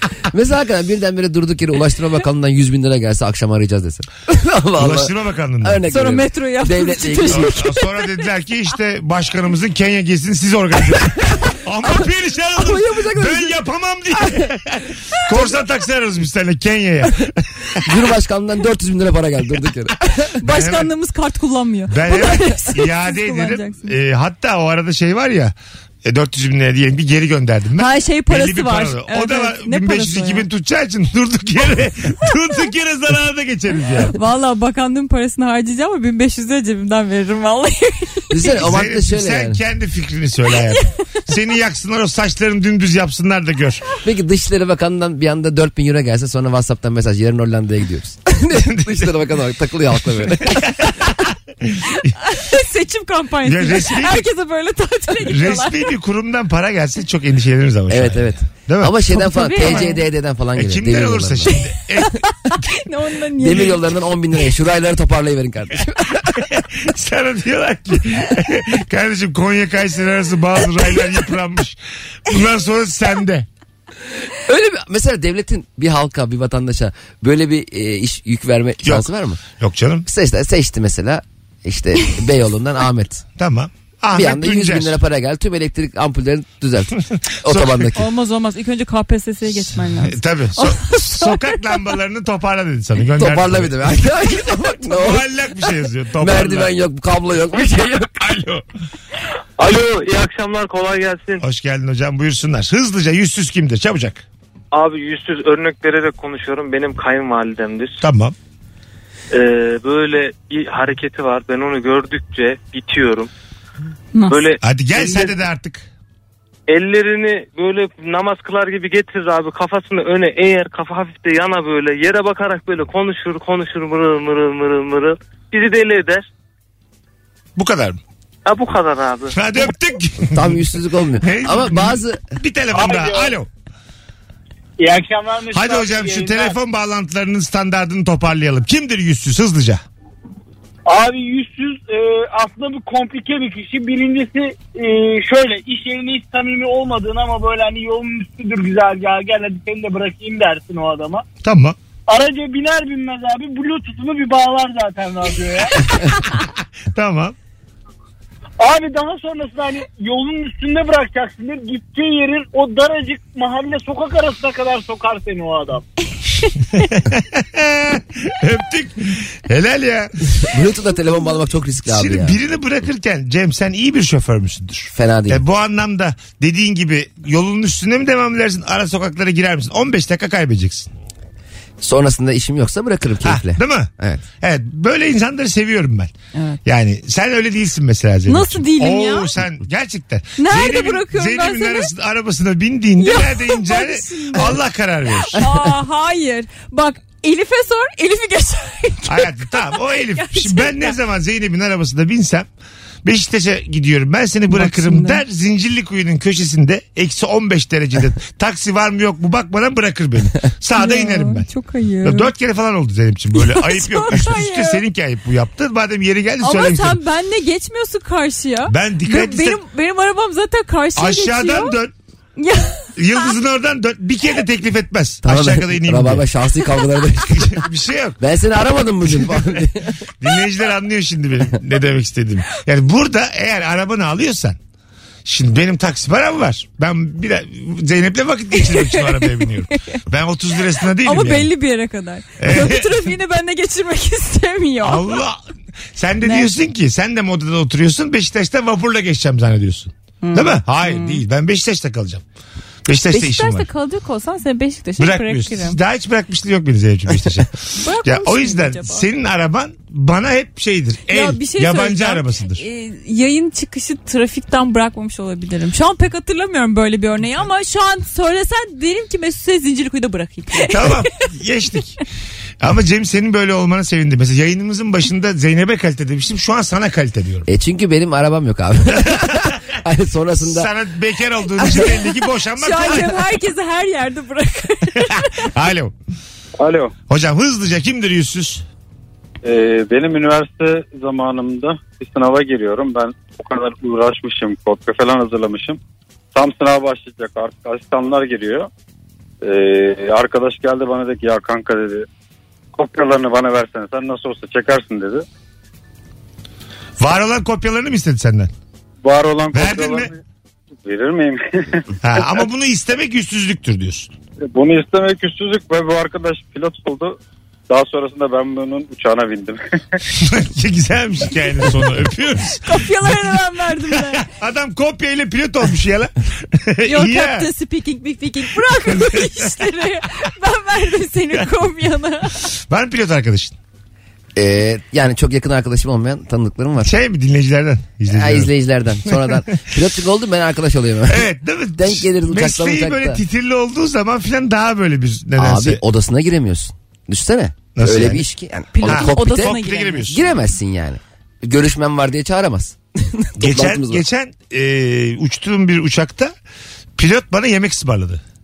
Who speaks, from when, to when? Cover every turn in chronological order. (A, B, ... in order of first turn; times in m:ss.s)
0:00.3-0:07.6 A
0:04.8-0:05.8 B
0:05.9-0:07.9 C
0:07.3-0:17.8 B
0:12.6-0:13.6 A
0:17.8-0:20.3 A
0:20.4-0:24.0 C
0:20.4-0:20.9 B
0:21.9-0:34.2 B
0:27.8-0:30.4 C
0:34.1-0:38.5 C
0:38.3-0:39.6 A
0:38.6-0:43.8 B
0:44.0-0:50.8 A
0:48.7-0:49.1 B
0:50.5-0:51.8 B
0:51.9-0:55.9 C
0:53.5-0:54.2 B
0:55.2-0:59.9 B
0:57.9-1:01.6 A
0:59.2-1:00.0 C
1:00.6-1:02.2 B
1:01.5-1:03.8 C
1:03.4-1:06.4 A
1:06.5-1:13.5 B
1:14.5-1:19.4 A
1:19.6-1:20.1 B
1:20.1-1:23.2 A
1:23.4-1:25.0 B
1:24.1-1:28.0 A
1:27.3-1:27.9 B
1:28.0-1:31.8 C
1:30.0-1:33.9 B
1:33.2-1:35.2 A
1:34.8-1:36.7 B
1:36.2-1:38.2 A
1:38.2-1:38.6 B
1:39.6-1:41.4 D
1:41.4-1:44.2 B
1:44.7-1:48.0 D
1:48.0-1:48.3 B
1:49.3-1:53.3 D
1:54.1-1:54.4 C
1:54.3-1:55.4 D
1:54.6-1:55.8 B
1:56.7-2:06.3 D
2:07.6-2:08.0 B
2:08.4-2:09.4 D
2:09.3-2:10.7 B
2:10.2-2:12.2 A
2:11.2-2:13.5 B
2:12.7-2:13.4 E
2:14.8-2:16.6 E
2:15.5-2:19.8 B
2:20.8-2:31.2 E
2:31.4-2:31.8 B
2:32.1-2:35.8 E
2:36.9-2:37.4 B
2:38.6-2:45.8 E
2:46.4-2:46.8 C
2:46.8-2:50.1 B
2:50.4-2:52.4 A
2:51.9-3:00.9 B
2:54.9-2:55.4 A
3:01.8-3:04.2 A
3:03.2-3:03.9 B
3:04.4-3:06.1 B
3:06.4-3:06.6 C
3:06.6-3:15.4 B
3:08.3-3:09.3 C
3:10.4-3:11.9 C
3:13.0-3:14.6 C
3:15.3-3:21.0 C
3:19.1-3:22.5 B
3:23.0-3:31.5 B
3:24.5-3:25.2 C
3:30.8-3:32.3 C
3:32.0-3:37.0 B
3:33.3-3:34.8 C
3:36.4-3:41.8 C
3:38.7-3:39.6 B
3:41.0-3:41.9 B
3:42.4-3:43.3 C
3:43.0-3:46.2 B
3:45.2-3:47.5 A
3:47.3-3:48.2 B
3:48.2-3:50.0 A
3:49.1-3:49.7 B
3:50.2-3:54.6 B
3:55.2-4:01.5 B
3:58.6-4:00.0 C
4:00.8-4:05.2 C
4:02.4-4:03.1 B
4:04.8-4:05.4 B
4:06.0-4:12.2 B
4:06.2-4:06.5 C
4:10.2-4:11.2 C
4:12.9-4:13.7 B
4:13.1-4:15.8 C
4:15.0-4:22.6 B
4:17.8-4:19.0 C
4:21.1-4:31.0 C
4:30.6-4:32.0 B
4:32.6-4:37.5 B
4:37.5-4:40.7 A
4:40.4-4:43.2 B
4:41.6-4:45.5 C
4:45.4-4:45.9 B
4:46.6-4:46.9 F
4:47.1-4:48.6 B
4:49.4-4:55.8 F
4:56.3-4:58.7 F
4:59.4-5:02.1 F
5:02.8-5:05.2 F
5:07.0-5:08.5 B
5:09.0-5:10.2 F
5:09.5-5:10.1 B
5:10.8-5:11.8 F
5:12.0-5:14.1 B
5:14.5-5:17.2 F
5:17.7-5:19.6 F
5:20.1-5:23.2 B
5:22.6-5:24.3 C
5:24.1-5:27.5 B
5:26.9-5:32.4 C
5:28.8-5:29.4 B
5:32.7-5:33.6 B
5:34.4-5:36.9 A
5:36.8-5:38.5 B
5:38.1-5:43.2 A
5:39.1-5:39.6 B
5:41.1-5:45.8 B
5:45.4-5:54.0 A
5:47.8-5:48.2 B
5:48.7-5:50.1 C
5:48.9-5:50.2 B
5:53.4-5:56.3 B
5:57.0-5:58.2 B